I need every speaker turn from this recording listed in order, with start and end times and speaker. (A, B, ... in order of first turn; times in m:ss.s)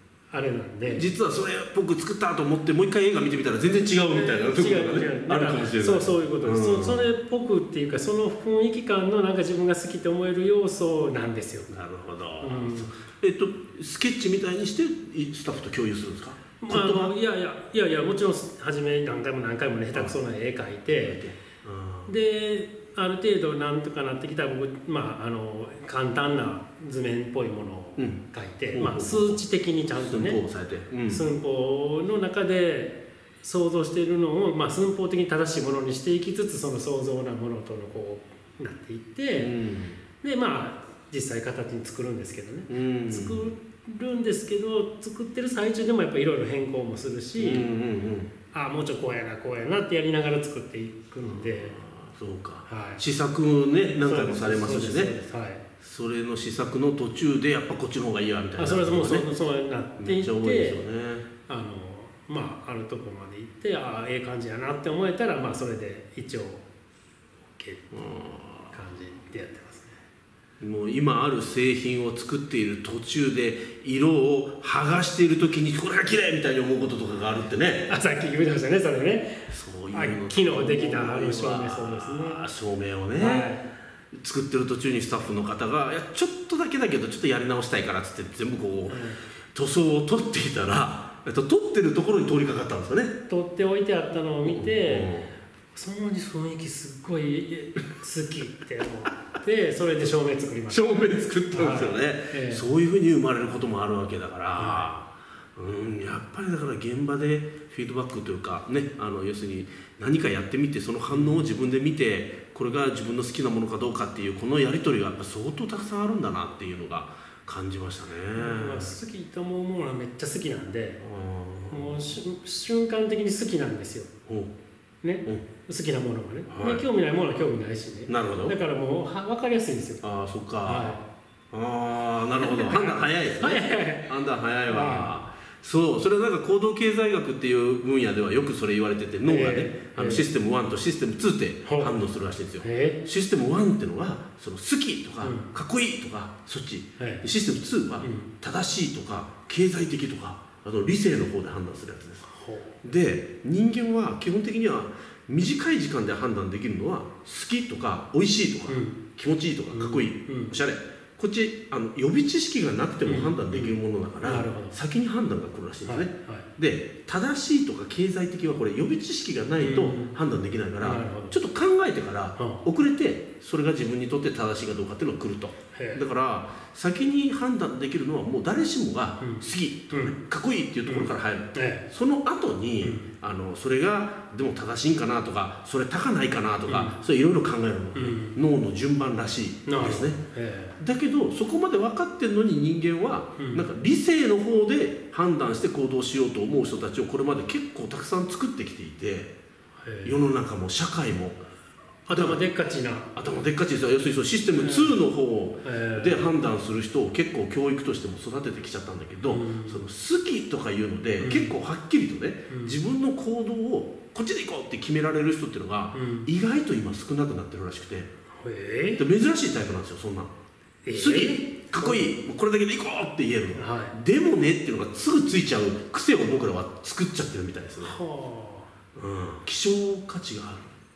0:00.3-0:01.0 A
0:00.8-0:07.0 B
0:04.1-0:11.7 A
0:11.7-0:17.1 B
0:12.4-0:12.9 A
0:16.6-0:21.2 A
0:21.0-0:22.1 B
0:22.0-0:30.4 A
0:28.7-0:29.4 B
0:30.0-0:31.2 B
0:31.1-0:39.5 A
0:39.4-0:40.0 B
0:40.2-0:47.6 A
0:42.7-0:43.5 B
0:47.4-0:48.3 B
0:48.5-0:51.8 A
0:51.2-0:55.1 B
0:52.7-0:53.0 A
0:54.0-0:55.6 A
0:55.8-0:59.3 B
0:58.6-1:00.8 A
1:00.0-1:01.2 B
1:01.5-1:06.6 A
1:07.5-1:07.9 A
1:07.9-1:08.7 B
1:08.7-1:10.0 A
1:10.6-1:17.9 B
1:17.9-1:22.4 A
1:19.5-1:23.5 B
1:23.2-1:23.6 A
1:24.1-1:33.2 B
1:28.9-1:29.2 A
1:33.3-1:35.1 A
1:34.4-1:35.3 B
1:35.7-1:42.6 A
1:40.7-1:58.9 B
1:44.6-1:44.9 A
1:51.1-1:51.5 A
1:58.3-2:01.0 A
2:01.0-2:02.0 B
2:01.7-2:04.1 A
2:04.3-2:04.5 B
2:05.0-2:10.0 A
2:06.5-2:06.8 B
2:08.1-2:08.6 B
2:10.0-2:11.0 B
2:10.6-2:11.0 A
2:11.5-2:32.2 B
2:12.4-2:14.1 A
2:14.7-2:15.2 A
2:19.3-2:20.3 A
2:21.6-2:21.9 A
2:22.6-2:23.0 A
2:25.2-2:25.5 A
2:27.0-2:27.2 A
2:28.0-2:28.3 A
2:32.3-2:32.7 A
2:32.8-3:10.2 B
2:38.7-2:39.0 A
2:39.7-2:40.5 A
2:43.0-2:44.7 A
2:45.8-2:46.5 A
2:49.6-2:50.1 A
2:50.8-2:51.3 A
2:52.4-2:52.6 A
2:55.7-2:56.0 A
2:59.2-3:00.1 A
3:00.8-3:01.8 A
3:02.8-3:03.1 A
3:06.7-3:07.0 A
3:07.9-3:08.4 A
3:09.6-3:10.8 A
3:10.8-3:19.3 B
3:13.4-3:13.6 A
3:19.8-3:20.2 A
3:20.0-3:21.4 B
3:22.1-3:23.1 A
3:22.1-3:22.4 B
3:23.2-3:38.1 B
3:24.6-3:25.0 A
3:25.6-3:26.3 A
3:29.2-3:29.8 A
3:31.2-3:31.5 A
3:32.5-3:32.8 A
3:35.9-3:36.3 A
3:38.4-3:39.0 A
3:39.0-3:40.3 B
3:40.8-3:42.1 A
3:40.9-3:48.0 B
3:43.6-3:43.9 A
3:47.8-3:48.7 A
3:48.9-3:50.7 B